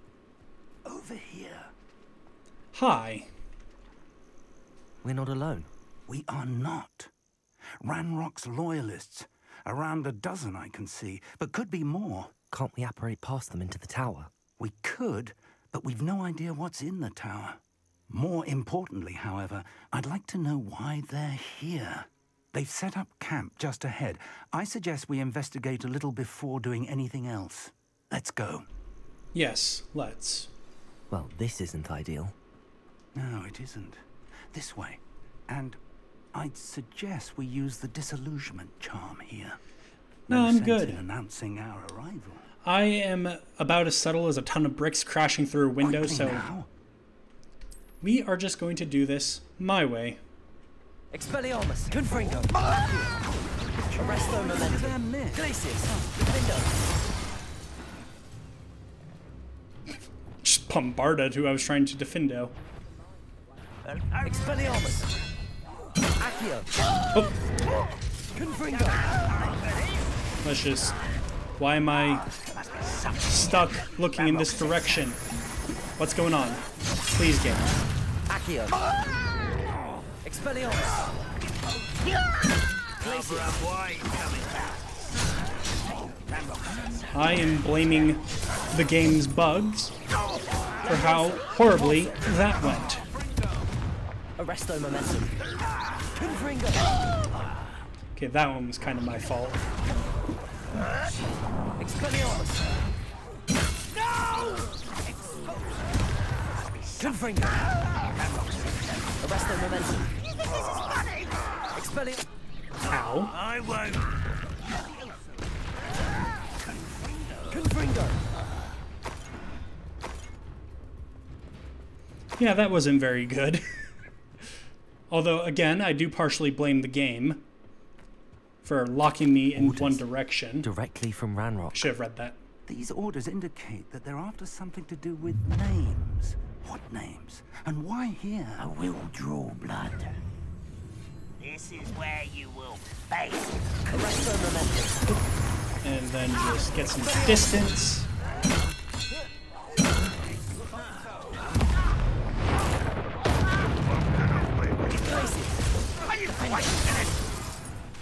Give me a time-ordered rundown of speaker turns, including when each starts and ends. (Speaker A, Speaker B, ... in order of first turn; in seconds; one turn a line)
Speaker A: 0.8-1.7
Speaker B: 2.7-3.3
Speaker C: 5.0-5.7
Speaker A: 6.1-7.1
Speaker A: 7.8-12.3
Speaker C: 12.5-14.3
Speaker A: 14.6-28.7
Speaker B: 29.3-30.5
Speaker C: 31.1-32.4
Speaker A: 33.1-35.8
Speaker A: 36.3-39.6
Speaker A: 40.3-42.5
Speaker B: 40.3-41.0
Speaker B: 42.6-46.5
Speaker A: 45.8-46.7
Speaker B: 48.0-50.2
Speaker D: 51.1-53.1
Speaker A: 53.8-56.1
Speaker D: 53.9-56.7
Speaker B: 60.4-62.5
Speaker E: 64.0-64.6
Speaker D: 64.2-65.1
Speaker D: 66.2-66.7
Speaker D: 68.3-69.1
Speaker B: 70.4-71.0
Speaker B: 71.6-72.3
Speaker B: 73.3-75.2
Speaker B: 76.0-77.9
Speaker D: 78.3-78.8
Speaker D: 80.2-81.0
Speaker E: 83.0-84.8
Speaker D: 83.0-83.6
Speaker E: 86.4-87.0
Speaker B: 87.1-90.0
Speaker B: 90.8-93.1
Speaker D: 90.8-92.0
Speaker D: 94.4-95.4
Speaker D: 96.2-96.9
Speaker B: 98.2-99.7
Speaker D: 101.8-102.7
Speaker D: 107.0-107.7
Speaker D: 109.2-110.1
Speaker D: 111.8-112.2
Speaker B: 112.9-113.4
Speaker E: 113.3-114.1
Speaker D: 117.5-118.2
Speaker B: 122.4-123.7
Speaker B: 125.1-127.5
Speaker B: 128.6-130.7
Speaker C: 129.6-130.0
Speaker C: 130.6-131.9
Speaker B: 131.7-132.4
Speaker A: 132.7-138.7
Speaker E: 138.6-140.0
Speaker E: 141.4-143.6
Speaker D: 143.9-145.0
Speaker B: 145.8-148.1
Speaker D: 154.9-155.6
Speaker D: 156.4-156.9